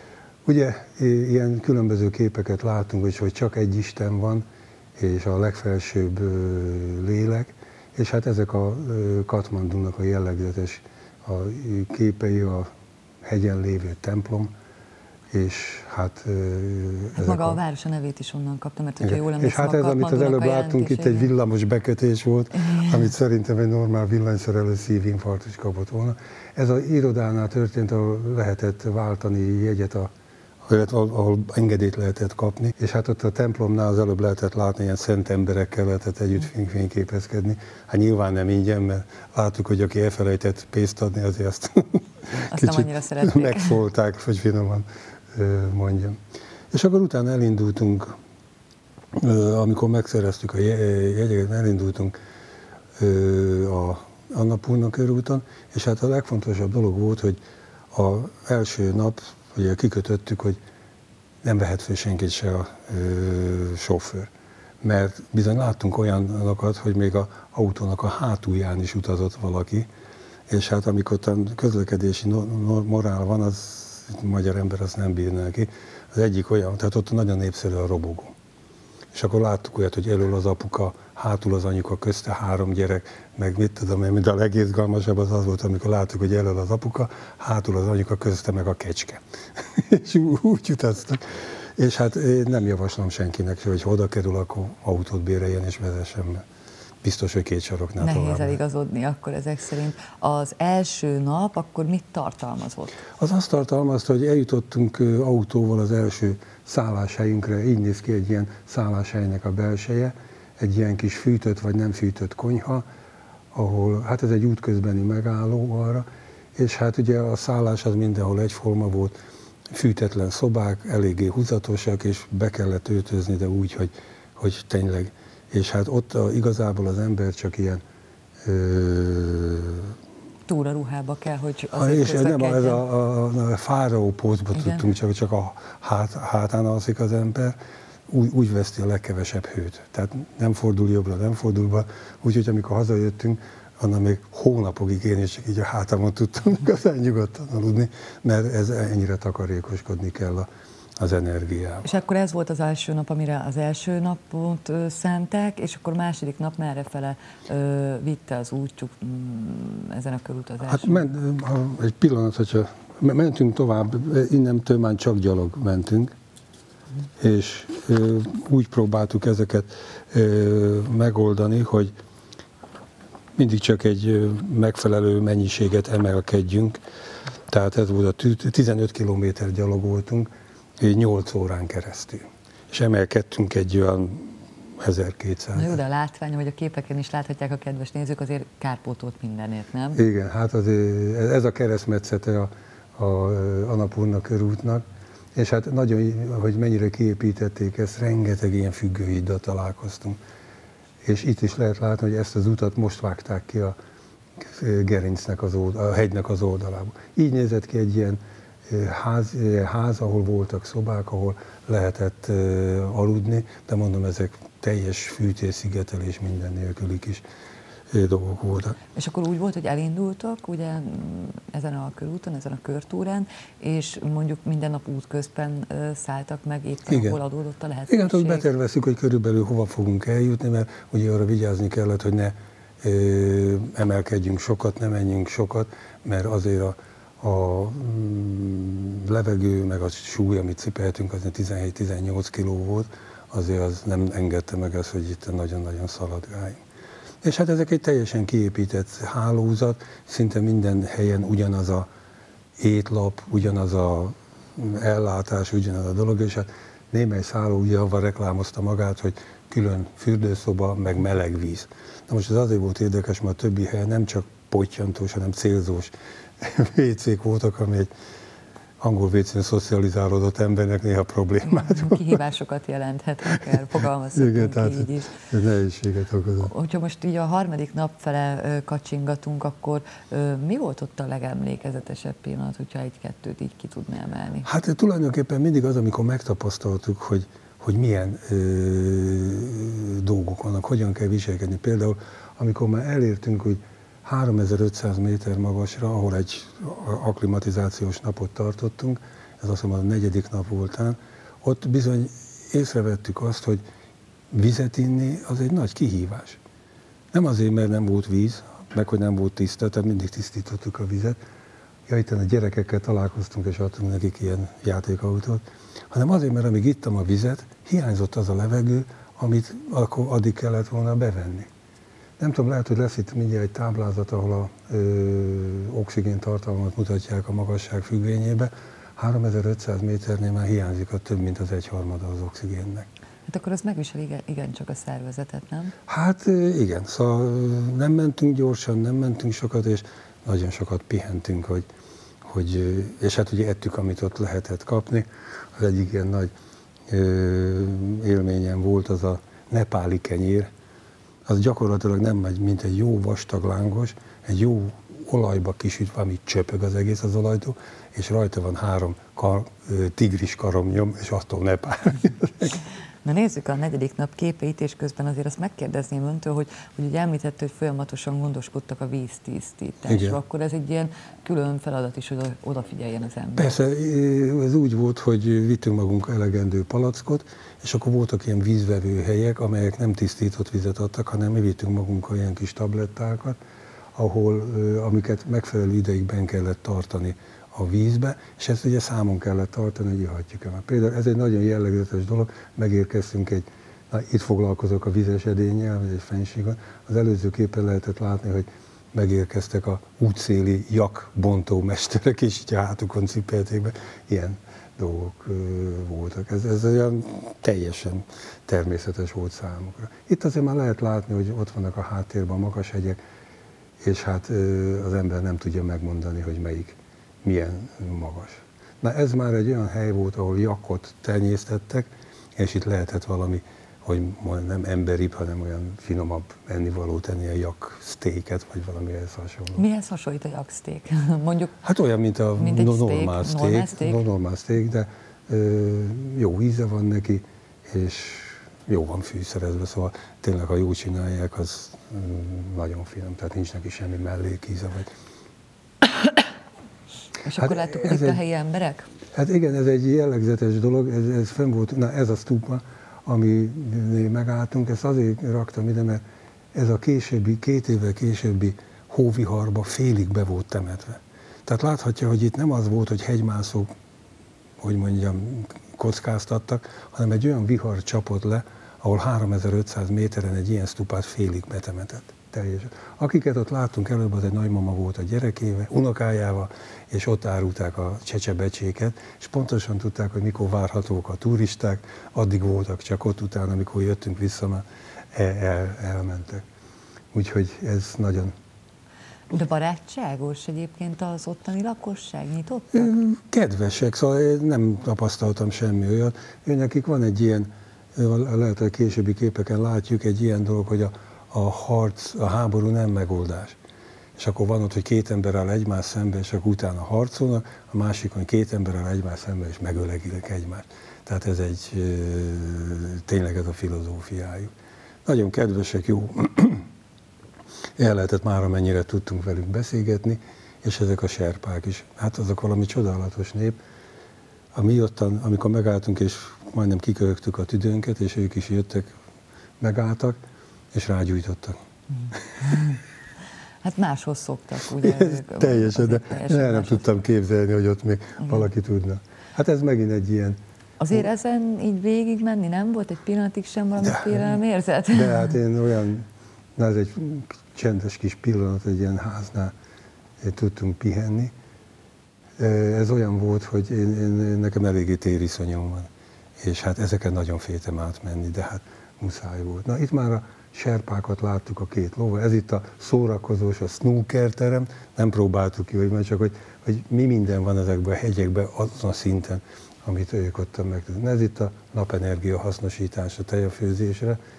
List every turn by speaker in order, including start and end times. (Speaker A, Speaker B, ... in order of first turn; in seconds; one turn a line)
Speaker A: 0.4-4.4
Speaker A: 5.0-12.7
Speaker A: 13.2-14.5
Speaker A: 15.3-17.6
Speaker B: 17.1-21.3
Speaker A: 19.0-30.1
Speaker B: 22.6-23.0
Speaker A: 30.6-46.2
Speaker B: 42.3-43.8
Speaker A: 46.7-48.1
Speaker A: 49.1-52.1
Speaker A: 53.0-57.4
Speaker A: 57.9-60.6
Speaker A: 61.4-64.3
Speaker A: 64.8-69.9
Speaker A: 70.5-78.3
Speaker A: 79.1-96.4
Speaker A: 97.0-98.6
Speaker B: 98.0-103.0
Speaker A: 103.2-112.8
Speaker A: 113.5-119.1
Speaker A: 119.7-127.8
Speaker A: 128.4-129.9
Speaker B: 130.5-132.8
Speaker A: 131.7-137.6
Speaker B: 134.5-134.9
Speaker A: 138.1-151.9
Speaker B: 151.8-161.1
Speaker A: 160.7-166.1
Speaker A: 167.2-171.9
Speaker A: 173.4-176.8
Speaker A: 177.5-185.8
Speaker B: 185.5-190.0
Speaker A: 189.9-194.8
Speaker A: 195.3-200.2
Speaker A: 201.0-203.7
Speaker A: 204.4-217.2
Speaker A: 217.9-218.8
Speaker B: 218.9-228.4
Speaker A: 226.9-227.2
Speaker A: 227.9-246.6
Speaker A: 247.2-251.9
Speaker A: 252.6-267.9
Speaker A: 268.8-272.2
Speaker B: 271.4-275.2
Speaker A: 274.1-276.5
Speaker B: 276.4-284.5
Speaker A: 284.4-303.6
Speaker A: 304.3-306.4
Speaker A: 307.1-311.2
Speaker A: 311.9-321.5
Speaker A: 322.2-332.9
Speaker B: 333.3-335.7
Speaker A: 335.9-341.7
Speaker A: 342.2-346.3
Speaker A: 346.9-350.5
Speaker A: 351.3-362.6
Speaker B: 363.0-373.5
Speaker A: 369.9-370.2
Speaker A: 373.4-383.4
Speaker A: 383.9-413.0
Speaker A: 413.8-429.6
Speaker B: 429.6-431.6
Speaker A: 431.6-444.9
Speaker B: 432.4-434.0
Speaker B: 447.2-448.9
Speaker A: 447.4-448.2
Speaker A: 449.1-456.0
Speaker A: 456.5-463.7
Speaker A: 464.6-486.4
Speaker A: 487.1-488.3
Speaker B: 489.3-492.9
Speaker A: 492.7-503.6
Speaker A: 504.2-514.5
Speaker A: 515.0-516.7
Speaker A: 517.8-523.6
Speaker A: 524.5-528.9
Speaker A: 529.6-530.2
Speaker A: 530.7-531.6
Speaker B: 532.4-532.8
Speaker B: 533.6-536.9
Speaker A: 534.8-540.4
Speaker B: 540.8-545.4
Speaker A: 543.8-544.1
Speaker A: 544.9-549.5
Speaker A: 550.2-551.3
Speaker A: 552.4-574.2